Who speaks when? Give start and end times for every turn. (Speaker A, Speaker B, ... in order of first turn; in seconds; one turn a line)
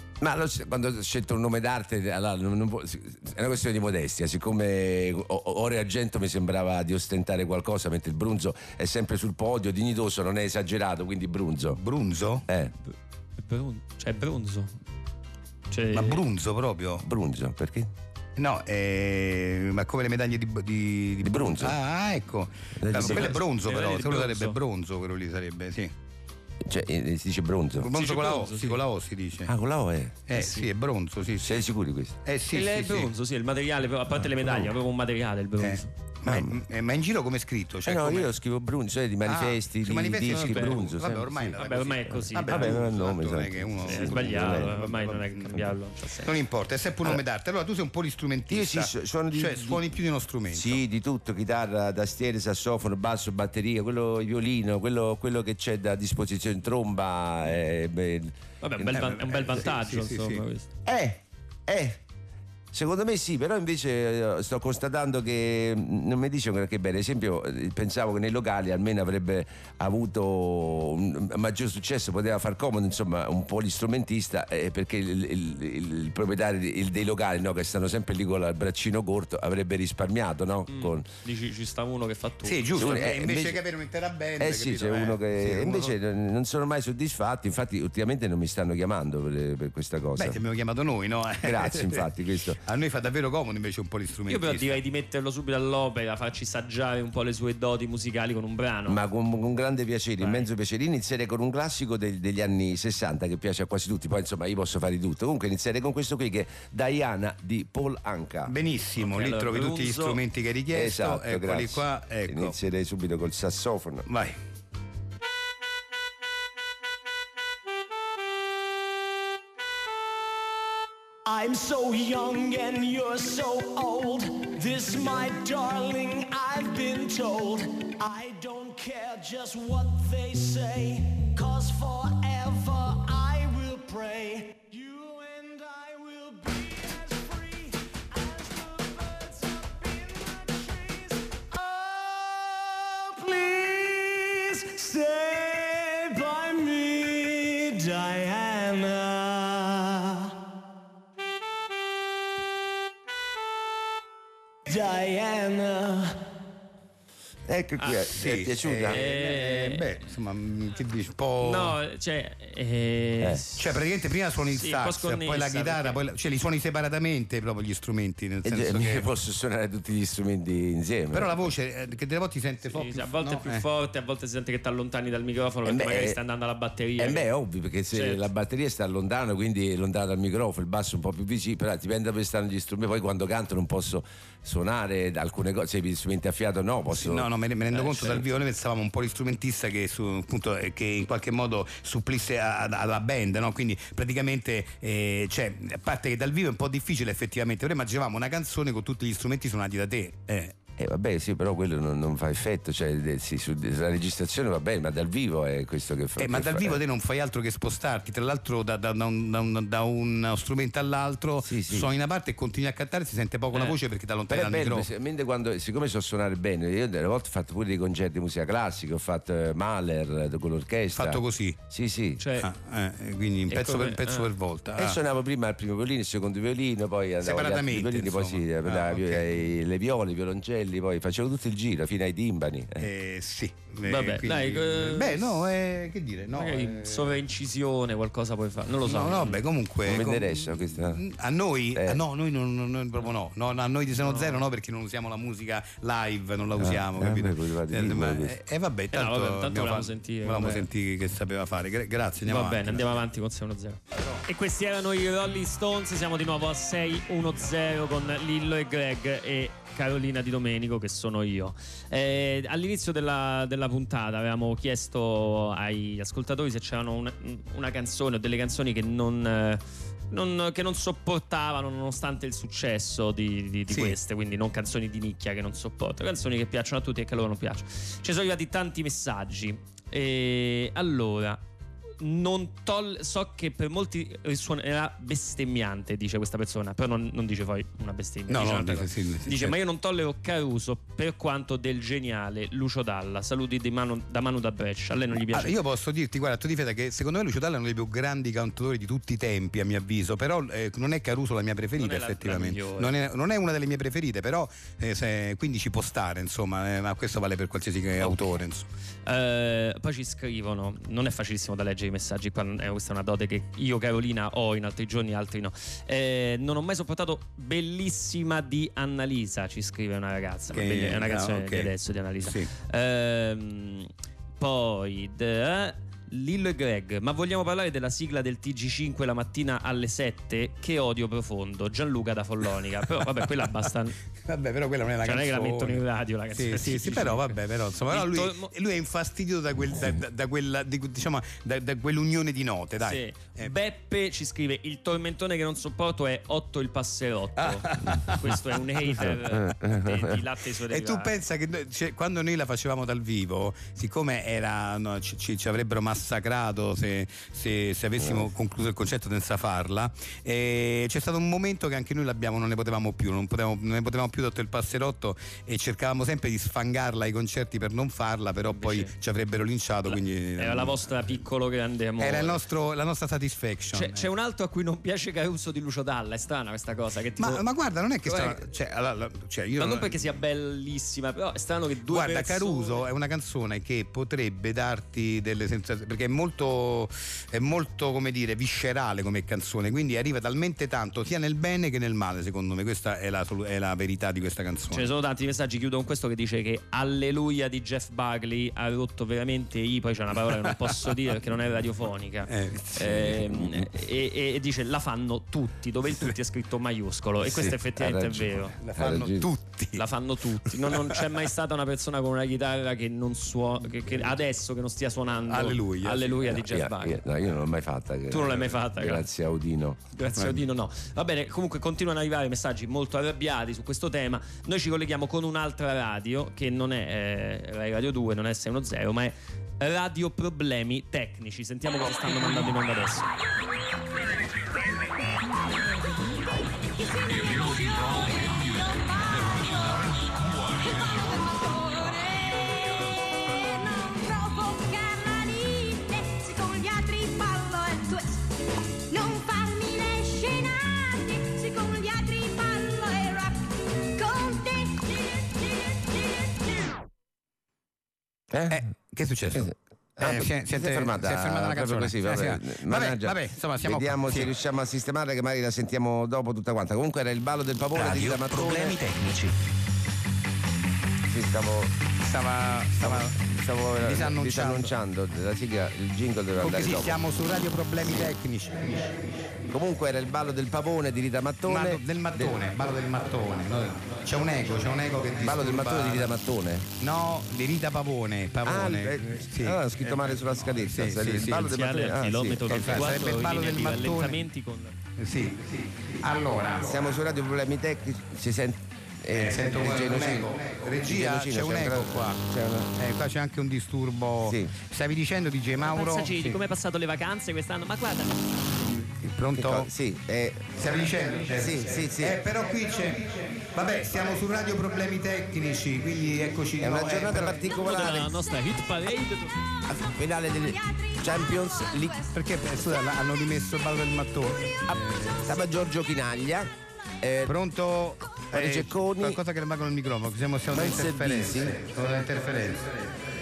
Speaker A: 0.2-11.8
Speaker B: 11.7-12.4
Speaker C: 12.9-14.8
Speaker C: 15.7-16.2
Speaker B: 15.9-17.1
Speaker A: 17.0-17.9
Speaker B: 18.4-25.9
Speaker A: 21.2-21.8
Speaker A: 22.8-23.4
Speaker C: 22.9-24.6
Speaker A: 26.6-27.9
Speaker B: 27.8-29.5
Speaker C: 27.9-28.8
Speaker A: 29.4-30.2
Speaker B: 30.3-31.7
Speaker C: 30.3-30.7
Speaker A: 31.4-32.1
Speaker B: 32.2-33.1
Speaker C: 32.5-35.9
Speaker B: 35.6-38.3
Speaker A: 37.9-41.5
Speaker B: 39.2-50.8
Speaker C: 40.3-40.9
Speaker C: 41.5-42.9
Speaker A: 42.3-44.8
Speaker C: 43.8-46.3
Speaker A: 48.5-49.9
Speaker A: 50.5-59.1
Speaker C: 58.6-60.7
Speaker B: 58.9-60.4
Speaker A: 60.9-62.0
Speaker A: 62.7-81.1
Speaker C: 80.7-82.7
Speaker B: 82.4-85.9
Speaker A: 82.8-83.6
Speaker A: 84.4-90.4
Speaker B: 90.2-92.1
Speaker A: 91.4-92.6
Speaker B: 92.6-94.8
Speaker C: 94.3-99.0
Speaker A: 98.9-108.5
Speaker C: 100.2-100.5
Speaker B: 108.5-112.5
Speaker C: 109.0-110.2
Speaker A: 110.7-114.1
Speaker B: 114.1-114.4
Speaker D: 121.2-150.3
Speaker D: 154.7-156.2
Speaker A: 157.5-159.0
Speaker B: 158.1-161.8
Speaker C: 158.9-159.9
Speaker C: 161.4-163.7
Speaker B: 163.6-169.1
Speaker C: 164.5-166.0
Speaker A: 168.4-171.4
Speaker B: 171.1-173.6
Speaker C: 172.6-177.3
Speaker A: 175.6-176.2
Speaker A: 177.0-187.3
Speaker C: 177.9-178.2
Speaker B: 186.9-200.5
Speaker C: 187.8-188.2
Speaker A: 200.8-206.8
Speaker B: 206.2-214.9
Speaker A: 211.4-211.9
Speaker C: 213.5-213.8
Speaker A: 214.3-222.2
Speaker B: 220.9-221.6
Speaker C: 222.2-222.5
Speaker B: 222.4-225.0
Speaker C: 223.5-224.3
Speaker A: 224.8-232.9
Speaker B: 227.2-229.3
Speaker B: 232.8-237.2
Speaker C: 233.8-235.4
Speaker C: 236.3-239.4
Speaker B: 238.8-253.0
Speaker A: 239.8-241.0
Speaker A: 241.7-242.0
Speaker C: 244.0-244.4
Speaker A: 246.6-248.3
Speaker C: 248.9-250.7
Speaker C: 252.2-281.4
Speaker B: 273.7-274.0
Speaker C: 282.0-295.6
Speaker B: 288.3-289.6
Speaker B: 295.1-308.7
Speaker C: 301.8-302.9
Speaker C: 308.0-308.3
Speaker C: 309.1-334.0
Speaker B: 320.5-321.7
Speaker B: 322.2-322.5
Speaker B: 334.2-343.5
Speaker C: 335.0-337.4
Speaker C: 337.9-338.5
Speaker C: 342.8-351.1
Speaker B: 347.4-349.1
Speaker A: 348.9-350.2
Speaker B: 350.7-371.1
Speaker C: 368.5-368.9
Speaker C: 369.9-372.4
Speaker B: 372.0-374.1
Speaker C: 373.7-377.4
Speaker B: 377.2-380.0
Speaker C: 378.0-378.4
Speaker C: 379.6-382.9
Speaker B: 381.9-394.9
Speaker C: 394.7-408.6
Speaker B: 402.3-403.6
Speaker A: 407.2-409.3
Speaker B: 408.6-409.9
Speaker C: 409.7-417.0
Speaker B: 410.5-411.1
Speaker B: 415.3-416.3
Speaker A: 416.3-419.8
Speaker C: 418.1-419.0
Speaker C: 419.9-433.1
Speaker E: 436.8-448.2
Speaker E: 448.9-456.8
Speaker A: 458.3-458.6
Speaker B: 458.5-464.4
Speaker A: 459.3-468.8
Speaker B: 467.7-469.4
Speaker A: 471.1-471.7
Speaker B: 472.0-474.8
Speaker A: 472.8-477.0
Speaker B: 476.4-479.1
Speaker A: 479.5-482.3
Speaker B: 481.4-486.1
Speaker A: 485.2-486.7
Speaker B: 486.8-491.5
Speaker A: 488.4-493.0
Speaker C: 491.5-494.8
Speaker B: 492.4-494.2
Speaker B: 495.0-497.0
Speaker A: 496.6-502.7
Speaker B: 499.1-506.4
Speaker A: 504.2-504.5
Speaker C: 505.6-508.2
Speaker B: 508.9-509.7
Speaker A: 509.4-510.5
Speaker B: 510.5-517.6
Speaker A: 511.3-512.2
Speaker A: 516.6-518.2
Speaker C: 517.6-519.3
Speaker A: 519.7-522.0
Speaker E: 520.3-522.1
Speaker B: 522.1-525.3
Speaker A: 524.7-526.5
Speaker A: 527.0-527.3
Speaker B: 527.2-532.8
Speaker A: 528.3-529.2
Speaker A: 530.5-531.6